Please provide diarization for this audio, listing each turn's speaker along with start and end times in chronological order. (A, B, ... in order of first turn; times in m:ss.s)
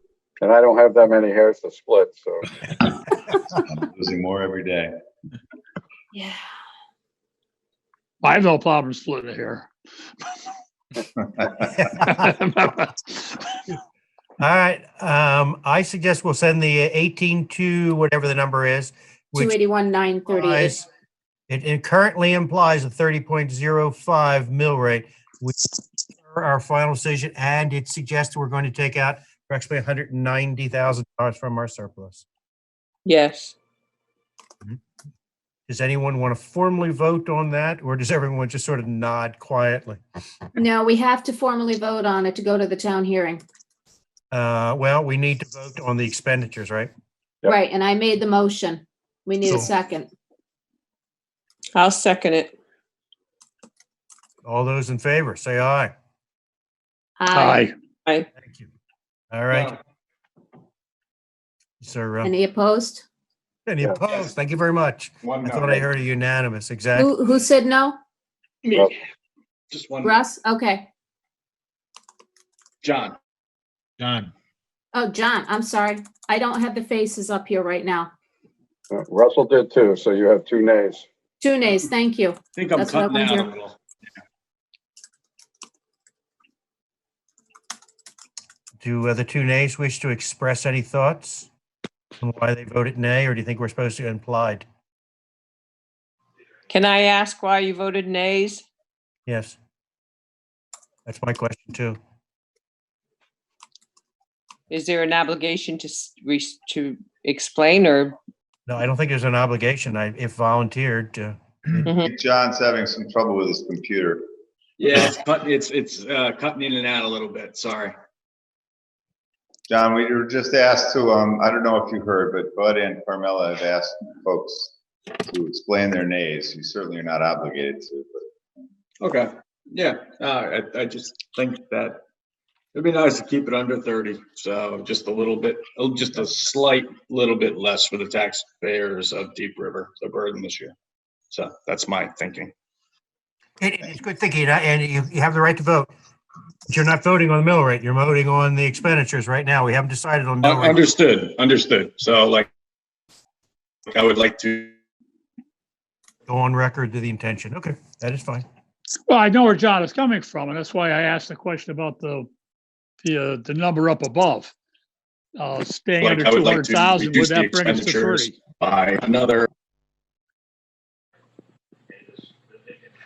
0:00.4-0:02.8 A
0:03.6-0:04.9 B
0:08.2-0:09.7 C
0:11.8-0:12.1 D
0:12.0-0:13.6 C
0:14.4-0:19.5 D
0:19.3-0:20.8 E
0:20.3-0:20.8 D
0:21.5-0:25.5 D
0:26.2-0:32.2 D
0:33.0-0:33.5 F
0:35.7-0:40.0 D
0:40.6-0:43.4 E
0:44.3-0:46.9 D
0:47.4-0:50.1 E
0:51.8-0:52.5 F
0:54.4-0:55.9 D
0:57.2-0:57.7 E
0:57.3-0:57.7 C
0:58.4-0:58.7 D
0:59.3-0:59.8 D
1:01.8-1:02.3 D
1:02.2-1:03.0 E
1:03.7-1:07.1 D
1:05.2-1:05.9 G
1:06.9-1:08.0 E
1:09.7-1:10.2 G
1:10.0-1:10.9 E
1:12.8-1:13.2 G
1:14.0-1:14.3 G
1:14.9-1:18.1 E
1:18.9-1:21.0 A
1:21.4-1:23.5 E
1:22.5-1:23.8 G
1:28.8-1:31.5 D
1:32.2-1:34.6 D
1:36.7-1:38.6 F
1:39.3-1:39.6 D
1:41.0-1:42.0 D
1:44.7-1:48.2 F
1:48.7-1:51.8 D
1:52.0-1:54.2 B
1:54.8-1:57.9 G
1:59.7-2:04.7 B
2:05.3-2:08.3 B
2:09.0-2:12.0 G
2:12.7-2:20.7 G
2:21.3-2:22.5 G
2:23.6-2:25.9 D
2:26.7-2:30.8 D
2:30.4-2:32.5 G
2:33.9-2:34.7 G
2:36.3-2:38.4 D
2:39.1-2:42.3 C
2:43.0-2:44.5 C
2:45.4-2:48.4 C
2:46.0-2:49.5 G